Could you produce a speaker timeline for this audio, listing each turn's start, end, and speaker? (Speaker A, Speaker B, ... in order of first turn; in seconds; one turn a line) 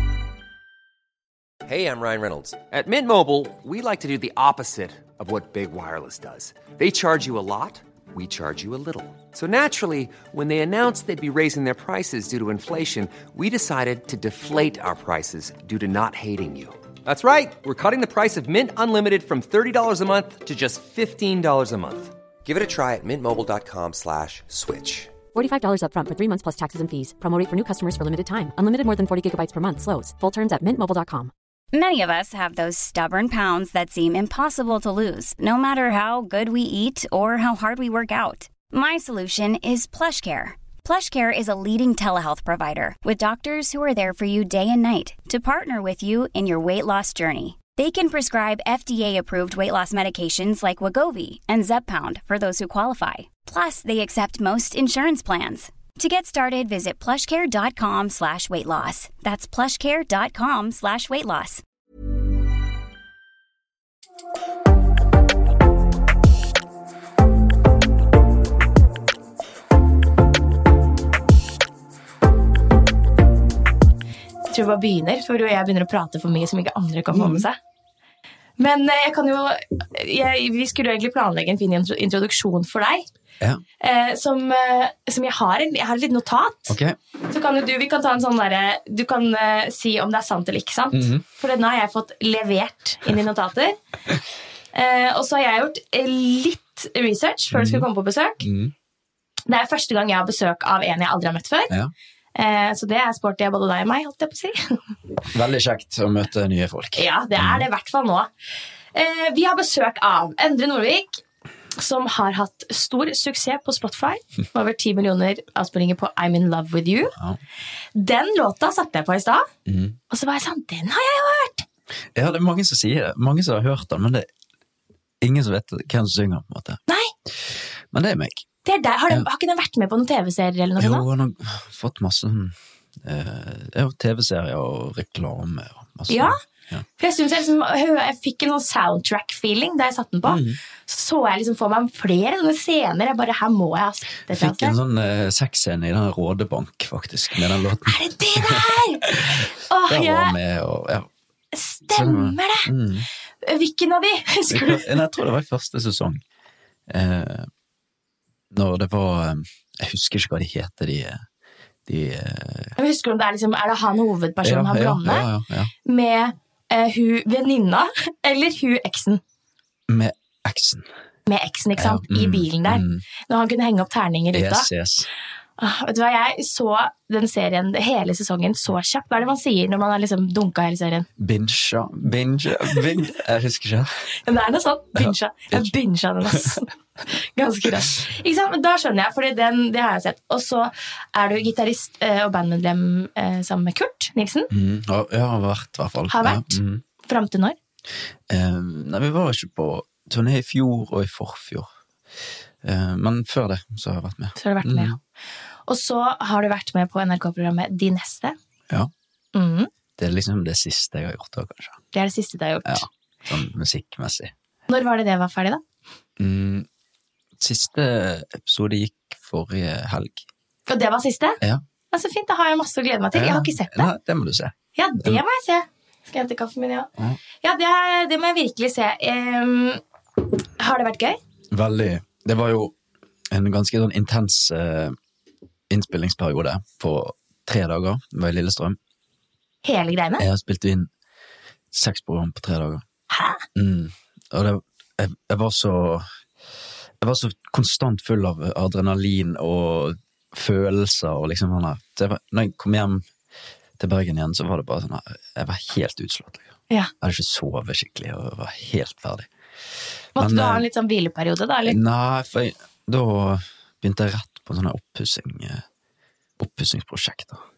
Speaker A: 1.6-25.1
Speaker B: 25.3-31.3
Speaker C: 31.7-61.6
Speaker D: 74.5-77.5
Speaker E: 77.1-77.5
Speaker D: 78.6-83.0
Speaker D: 83.8-86.8
Speaker E: 86.7-87.0
Speaker D: 87.3-93.8
Speaker E: 90.9-91.2
Speaker D: 94.7-98.4
Speaker E: 97.5-97.9
Speaker E: 98.4-98.7
Speaker D: 99.5-101.7
Speaker D: 102.3-104.8
Speaker E: 105.3-107.6
Speaker D: 107.0-108.3
Speaker D: 108.9-111.2
Speaker D: 111.7-117.1
Speaker D: 117.9-119.5
Speaker E: 119.7-120.0
Speaker D: 120.1-121.7
Speaker E: 122.1-124.3
Speaker E: 125.2-128.5
Speaker D: 128.6-131.1
Speaker E: 130.8-136.8
Speaker D: 136.1-136.3
Speaker D: 137.0-144.8
Speaker E: 140.3-140.6
Speaker E: 144.3-151.1
Speaker D: 147.8-150.3
Speaker D: 151.5-152.7
Speaker E: 151.9-153.1
Speaker D: 153.4-155.0
Speaker E: 154.5-156.2
Speaker E: 156.9-157.5
Speaker E: 158.5-161.2
Speaker E: 161.8-162.7
Speaker D: 162.8-165.3
Speaker E: 164.4-165.7
Speaker D: 165.8-169.2
Speaker E: 169.9-170.9
Speaker D: 171.3-174.7
Speaker E: 171.8-173.0
Speaker E: 174.3-175.1
Speaker D: 175.6-181.1
Speaker E: 181.2-184.0
Speaker D: 184.2-194.5
Speaker E: 184.9-185.7
Speaker E: 186.2-186.5
Speaker E: 194.5-196.8
Speaker D: 196.1-197.6
Speaker E: 198.3-201.7
Speaker E: 202.6-204.9
Speaker D: 204.4-205.0
Speaker D: 205.7-208.3
Speaker D: 209.3-209.7
Speaker E: 210.0-211.8
Speaker D: 211.9-212.8
Speaker E: 212.6-214.3
Speaker D: 214.7-215.6
Speaker E: 216.2-216.7
Speaker E: 217.4-220.3
Speaker D: 220.7-221.4
Speaker D: 221.9-223.9
Speaker E: 223.1-225.2
Speaker D: 224.8-226.9
Speaker D: 227.4-229.8
Speaker D: 230.6-231.2
Speaker E: 231.5-232.7
Speaker E: 233.3-234.9
Speaker E: 235.7-238.8
Speaker D: 239.6-240.2
Speaker E: 240.2-240.9
Speaker E: 241.7-242.8
Speaker D: 243.1-243.4
Speaker E: 243.5-246.1
Speaker E: 247.0-253.0
Speaker E: 253.8-256.5
Speaker E: 257.0-259.3
Speaker E: 260.1-260.6
Speaker D: 260.1-261.8
Speaker E: 261.6-265.6
Speaker E: 266.4-267.4